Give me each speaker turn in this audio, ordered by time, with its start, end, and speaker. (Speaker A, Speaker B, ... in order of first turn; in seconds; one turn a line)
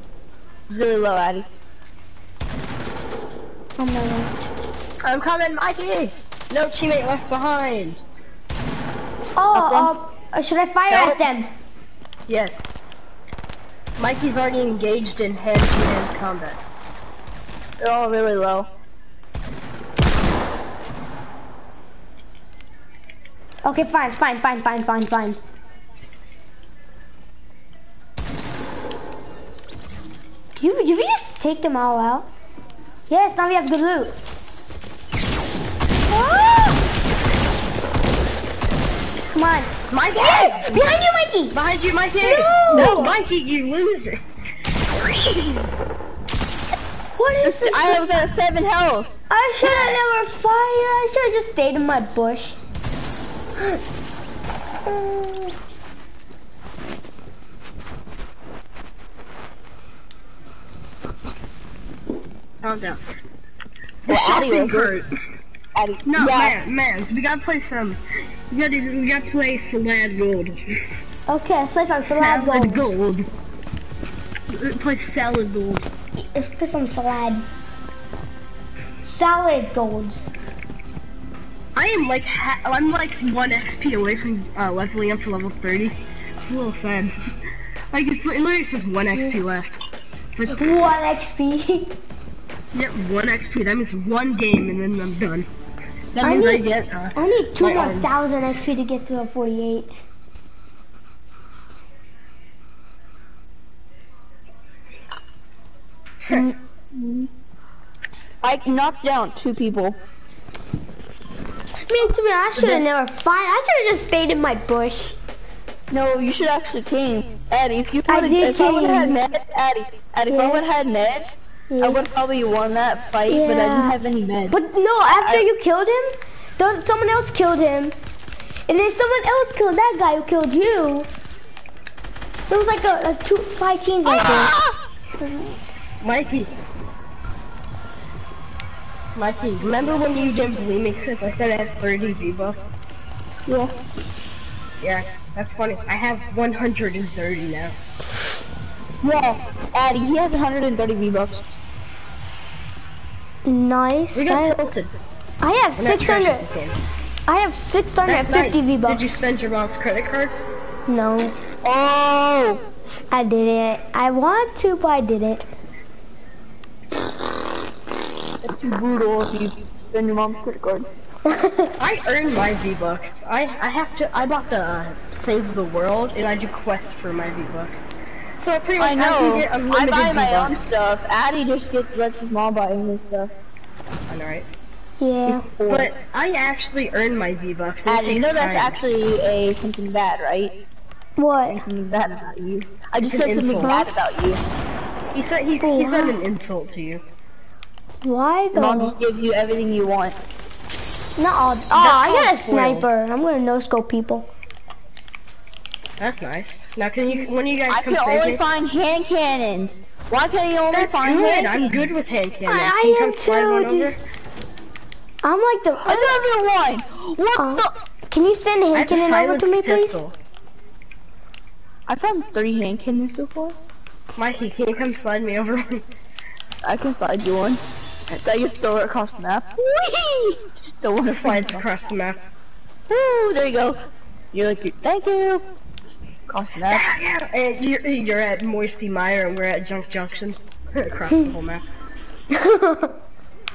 Speaker A: 0.7-1.5
Speaker B: 3.8-4.5
Speaker C: 5.0-8.0
Speaker B: 9.4-11.5
Speaker A: 9.5-9.9
Speaker A: 10.9-11.2
Speaker C: 12.3-12.7
Speaker C: 14.0-16.6
Speaker A: 17.8-18.7
Speaker B: 23.6-25.4
Speaker B: 30.6-32.3
Speaker B: 33.1-34.2
Speaker B: 36.1-36.8
Speaker B: 39.3-41.6
Speaker C: 39.9-40.8
Speaker A: 40.2-40.5
Speaker C: 41.5-44.2
Speaker B: 42.2-43.1
Speaker A: 42.7-43.1
Speaker C: 45.2-45.5
Speaker B: 47.1-48.0
Speaker A: 47.4-49.1
Speaker B: 49.3-52.6
Speaker B: 54.9-55.6
Speaker C: 62.6-63.0
Speaker C: 64.0-65.1
Speaker A: 64.1-65.0
Speaker A: 65.8-66.6
Speaker C: 66.1-70.6
Speaker B: 71.3-72.8
Speaker C: 72.2-73.3
Speaker C: 74.5-75.9
Speaker B: 76.2-77.5
Speaker B: 79.0-80.3
Speaker C: 81.8-87.2
Speaker C: 87.9-89.8
Speaker C: 90.4-90.7
Speaker B: 90.5-92.0
Speaker C: 92.7-95.5
Speaker A: 96.1-96.9
Speaker B: 96.2-99.9
Speaker C: 96.2-98.2
Speaker A: 106.3-107.3
Speaker A: 108.4-110.0
Speaker B: 111.7-115.2
Speaker A: 112.6-112.8
Speaker A: 115.9-124.7
Speaker B: 118.1-119.2
Speaker B: 120.3-120.6
Speaker B: 121.7-122.0
Speaker B: 123.3-124.0
Speaker B: 124.5-128.0
Speaker A: 125.2-125.5
Speaker B: 128.7-131.1
Speaker B: 132.5-134.5
Speaker A: 134.1-134.8
Speaker B: 135.2-135.5
Speaker C: 136.0-136.5
Speaker C: 139.2-142.8
Speaker A: 143.5-143.8
Speaker C: 144.8-147.8
Speaker A: 149.0-151.4
Speaker B: 153.5-154.6
Speaker C: 154.2-154.9
Speaker B: 155.4-156.4
Speaker C: 155.8-156.8
Speaker B: 157.3-159.3
Speaker C: 158.1-160.3
Speaker B: 160.9-161.4
Speaker A: 161.6-162.6
Speaker B: 163.1-165.4
Speaker A: 168.4-170.9
Speaker B: 171.3-171.7
Speaker C: 171.8-180.6
Speaker A: 178.8-183.3
Speaker C: 184.1-184.5
Speaker B: 185.0-185.5
Speaker A: 185.2-185.9
Speaker C: 185.7-188.8
Speaker A: 187.9-190.6
Speaker B: 191.2-191.6
Speaker A: 191.4-194.4
Speaker C: 193.0-193.9
Speaker C: 195.1-197.0
Speaker B: 195.6-196.2
Speaker B: 198.0-199.0
Speaker A: 198.6-200.2
Speaker B: 201.2-204.3
Speaker C: 201.7-202.9
Speaker C: 206.0-208.4
Speaker A: 207.7-211.9
Speaker C: 210.7-214.0
Speaker B: 212.5-213.9
Speaker B: 215.2-216.2
Speaker A: 215.8-217.7
Speaker B: 217.4-220.0
Speaker C: 218.7-220.1
Speaker A: 221.9-223.6
Speaker C: 224.2-225.8
Speaker A: 226.6-231.6
Speaker C: 231.1-232.2
Speaker A: 232.9-233.8
Speaker A: 234.3-235.4
Speaker A: 236.3-236.9
Speaker C: 236.7-241.6
Speaker B: 242.3-242.9